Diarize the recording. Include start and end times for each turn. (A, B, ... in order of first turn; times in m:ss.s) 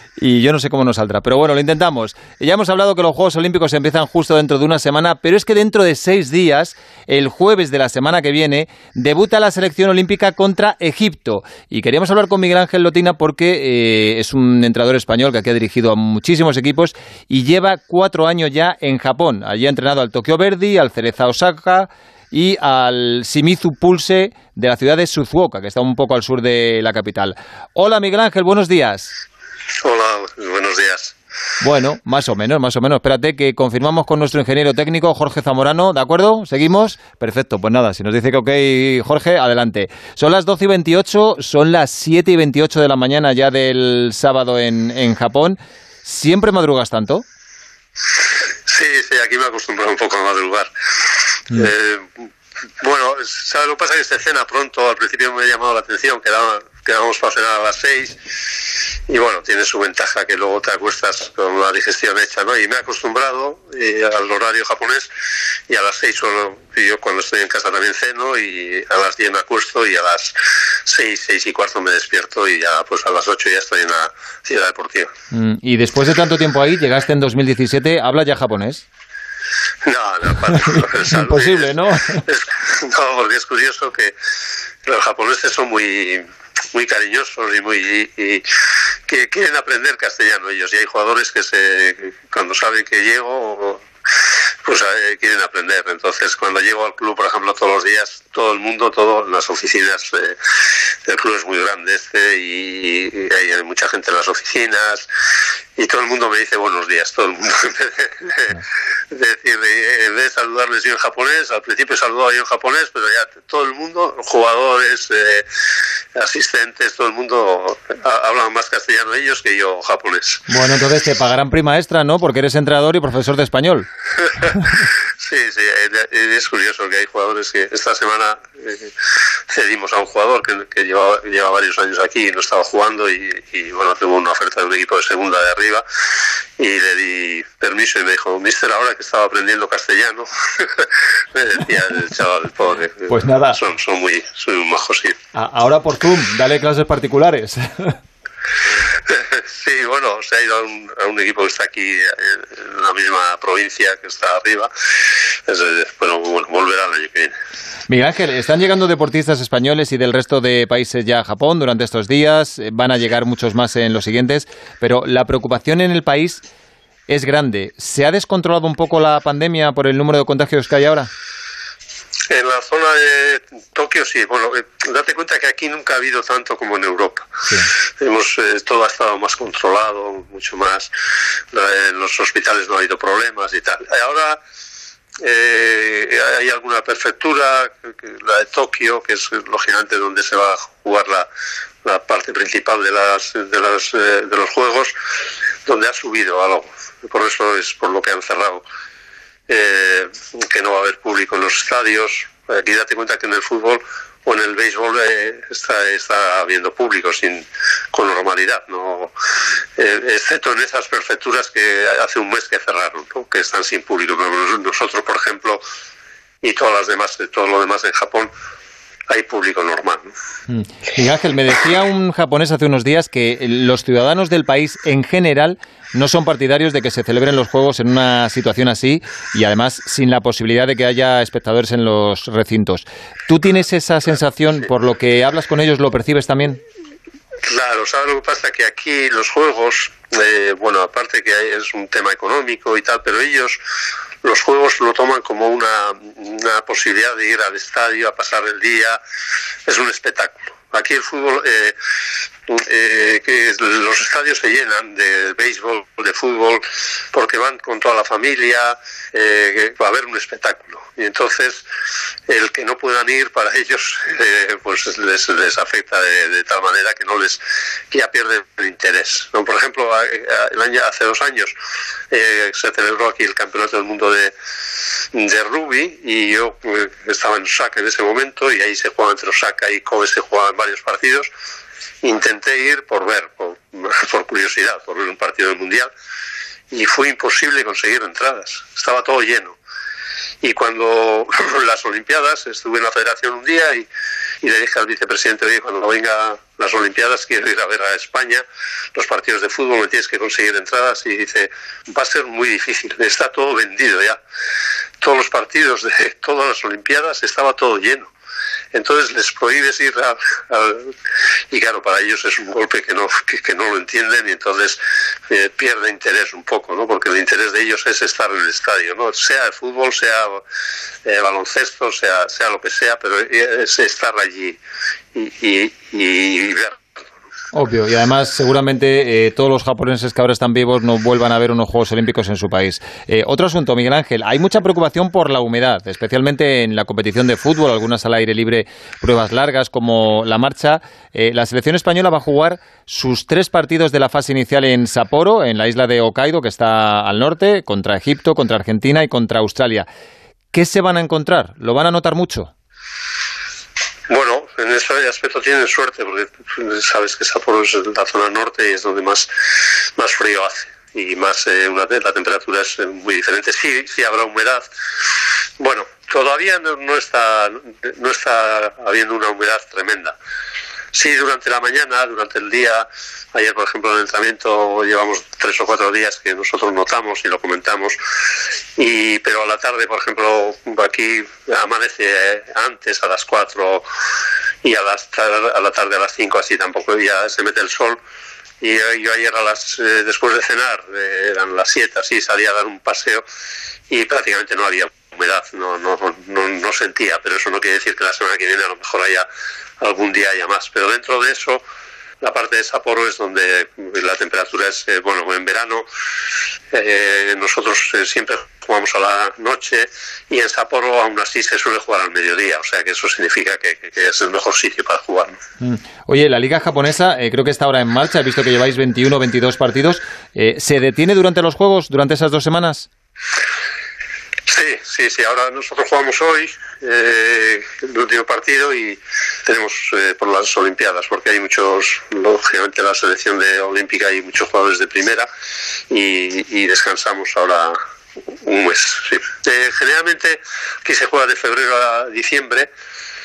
0:00.2-0:29.1 A
0:29.8-0:31.1 B
0:31.6-0:47.2 A
0:48.7-0:50.7 B
0:51.5-0:52.3 B
0:52.8-0:58.2 B
0:59.1-1:05.1 B
1:05.7-1:15.1 B
1:15.3-1:18.8 A
1:19.8-1:24.2 B
1:21.1-1:22.2 A
1:24.8-1:28.5 B
1:29.0-1:33.8 B
1:34.6-1:40.4 B
1:41.0-1:45.1 B
1:45.8-1:55.5 B
1:56.1-2:00.4 B
2:00.5-2:03.9 A
2:05.2-2:15.8 B
2:16.6-2:25.2 B
2:23.1-2:23.6 A
2:25.3-2:28.0 A
2:29.0-2:37.3 B
2:37.9-2:46.4 A
2:47.1-2:51.1 A
2:52.3-3:00.9 B
3:01.5-3:04.4 B
3:05.2-3:11.3 B
3:11.8-3:14.9 B
3:15.6-3:18.6 B
3:19.5-3:29.1 B
3:29.8-3:35.6 B
3:36.4-3:38.3 B
3:39.1-3:40.1 B
3:40.5-3:56.6 A
3:57.4-4:03.6 B
4:04.2-4:09.0 B
4:09.7-4:11.8 B
4:12.5-4:21.6 B
4:22.3-4:31.5 B
4:32.1-4:34.3 B
4:35.1-4:41.3 B
4:42.0-4:45.9 B
4:46.7-4:49.6 B
4:50.4-4:53.9 B
4:54.4-5:04.2 B
5:05.0-5:08.1 B
5:08.7-5:10.9 B
5:11.5-5:20.4 B
5:21.0-5:24.6 B
5:25.1-5:26.8 B
5:27.5-5:49.9 A
5:50.5-5:52.5 A
5:54.1-6:04.7 B
6:05.6-6:10.1 B
6:10.9-6:18.0 B
6:18.8-6:23.9 B
6:24.6-6:28.0 B
6:28.6-6:33.2 B
6:33.9-6:39.3 B
6:39.8-6:41.6 B
6:42.2-6:45.8 B
6:46.7-6:55.4 B
6:55.6-7:02.9 A
7:04.5-7:15.3 B
7:15.9-7:17.8 B
7:18.3-7:22.7 B